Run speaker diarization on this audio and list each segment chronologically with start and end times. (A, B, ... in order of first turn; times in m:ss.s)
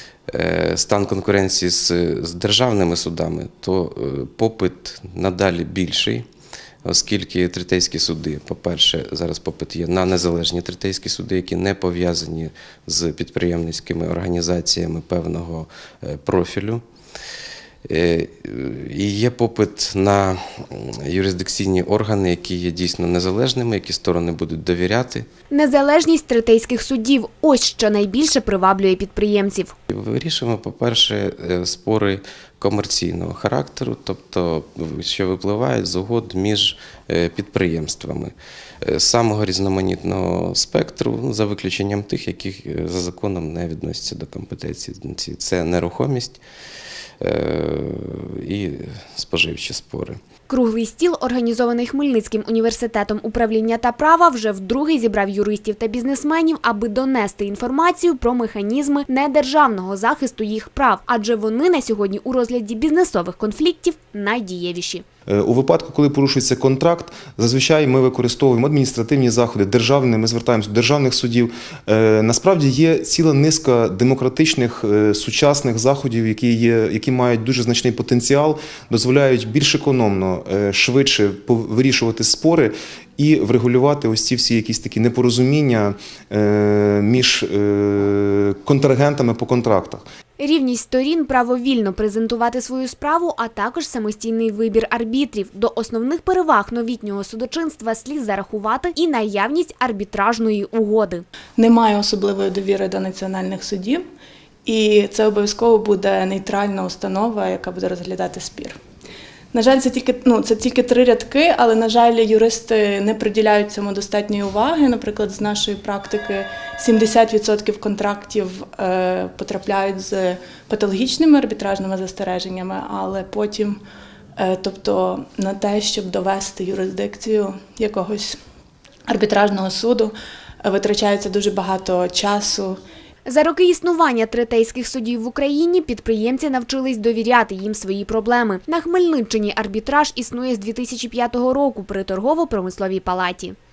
0:00.3-0:06.2 A
0:06.8-0:16.8 A
0:17.8-0:25.3 A
0:25.5-0:29.7 B
0:29.9-0:46.4 A
0:47.2-0:50.2 A
0:50.5-1:05.0 B
1:05.3-1:30.0 C
1:30.4-1:41.2 B
1:41.6-1:44.0 D
1:44.6-1:48.8 D
1:49.5-2:03.8 D
2:04.4-2:08.4 D
2:09.1-2:12.8 D
2:13.2-2:23.6 B